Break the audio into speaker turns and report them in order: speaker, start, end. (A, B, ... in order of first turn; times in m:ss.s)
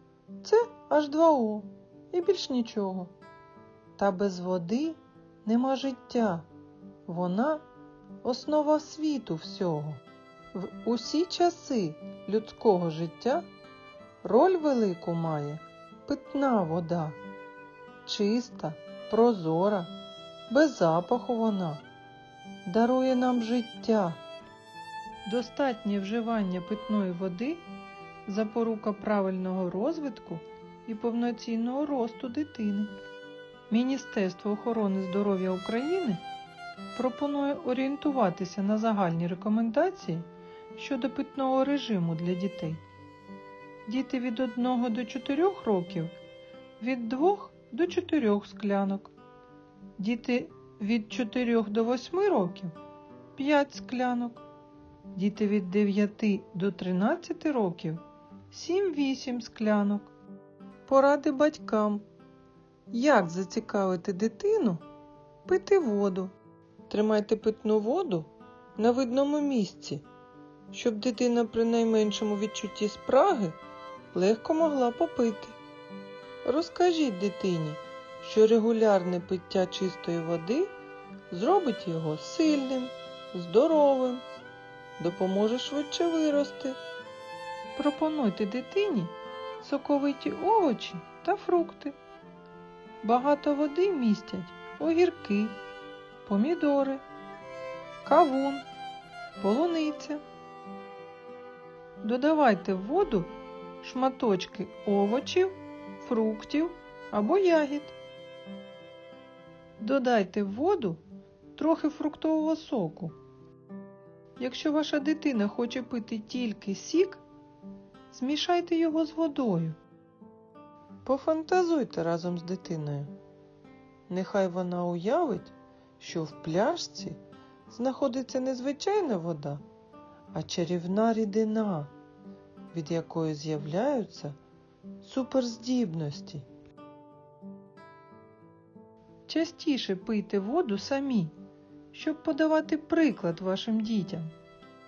0:00.4-0:03.1 A
0:04.0-0:06.5 A
0:07.0-0:07.6 A
0:08.2-0:10.0 A
0:10.5-0:13.4 A
0:14.2-0:17.2 A
0:18.0-0:19.9 A
0:20.5-0:21.8 A
0:22.6-0:24.2 A
0:25.2-0:27.6 A
0:28.2-0:32.9 A
0:33.7-0:36.2 A
0:36.9-0:42.8 A
0:43.8-0:46.1 A
0:46.8-0:49.1 A
0:50.0-0:52.8 A
0:53.4-0:54.4 A
0:55.1-1:00.1 A
1:00.9-1:02.0 A
1:02.9-1:04.8 A
1:05.4-1:06.3 A
1:06.9-1:10.0 A
1:10.7-1:13.6 A
1:14.1-1:15.6 A
1:16.4-1:20.7 A
1:21.3-1:24.2 A
1:25.0-1:26.8 A
1:27.8-1:32.0 A
1:33.0-1:35.6 A
1:36.2-1:37.0 A
1:38.0-1:38.7 A
1:39.4-1:40.2 A
1:42.0-1:47.9 A
1:49.8-1:51.0 A
1:51.5-1:53.1 A
1:54.4-1:57.2 A
1:58.1-1:59.8 A
2:01.0-2:03.1 A
2:04.1-2:09.6 A
2:10.3-2:11.9 A
2:12.7-2:14.4 A
2:15.0-2:16.4 A
2:19.3-2:21.3 A
2:21.9-2:24.3 A